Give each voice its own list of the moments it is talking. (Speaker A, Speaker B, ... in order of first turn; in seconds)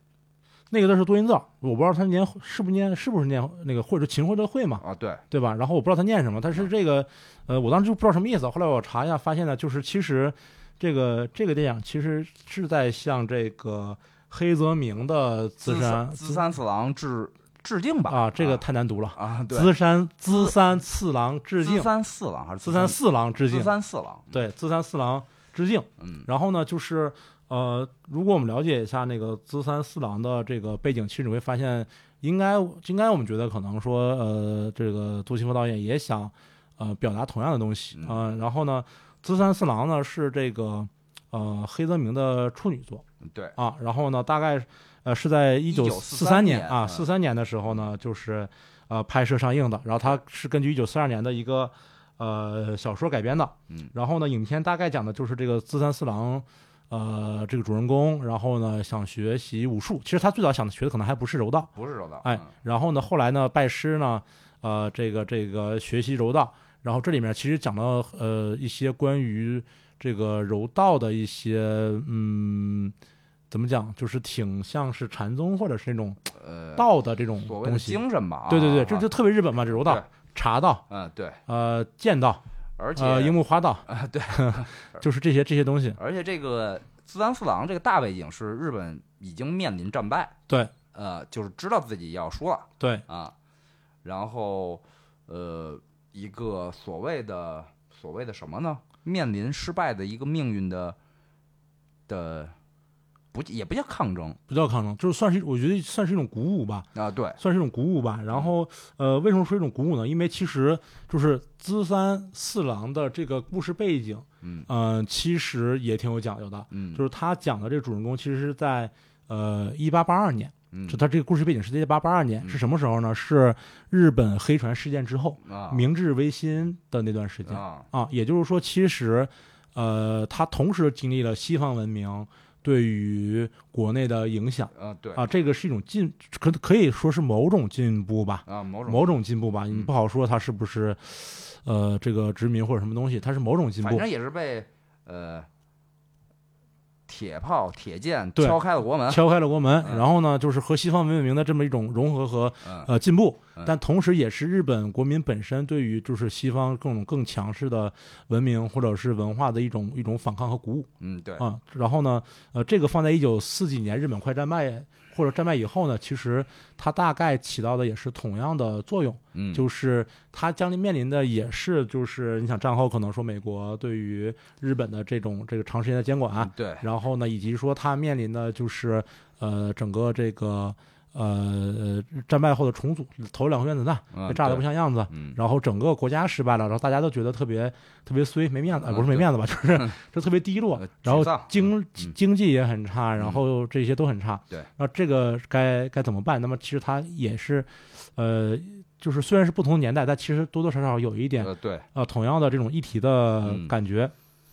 Speaker A: 0.7-16.4, 18.1-21.9, 22.6-23.7, 24.3-43.0, 43.5-61.7, 62.2-72.9, 73.5-76.2, 76.8-80.8, 81.5-82.4, 83.0-86.0, 104.5-144.0, 148.4-204.1
Speaker B: 4.8-5.2, 15.6-18.6, 19.1-19.7, 21.6-24.3, 26.0-26.3, 37.9-38.2, 43.2-43.5, 45.7-47.0, 61.7-62.5, 76.3-76.9, 77.4-79.1, 79.7-80.1, 80.9-81.4, 82.8-85.0, 86.0-90.3, 90.9-93.3, 94.0-101.0, 102.1-102.5, 103.3-104.4, 106.9-107.4, 114.4-114.7, 116.7-117.0, 120.7-121.0, 125.4-125.8, 127.5-127.9, 134.7-135.2, 138.4-139.0, 143.8-145.5, 147.1-149.2, 152.6-152.9, 161.0-161.4, 169.3-169.6, 176.4-176.8, 184.1-185.4, 188.7-189.9, 190.8-192.1, 193.2-193.4, 201.4-201.8, 203.4-203.7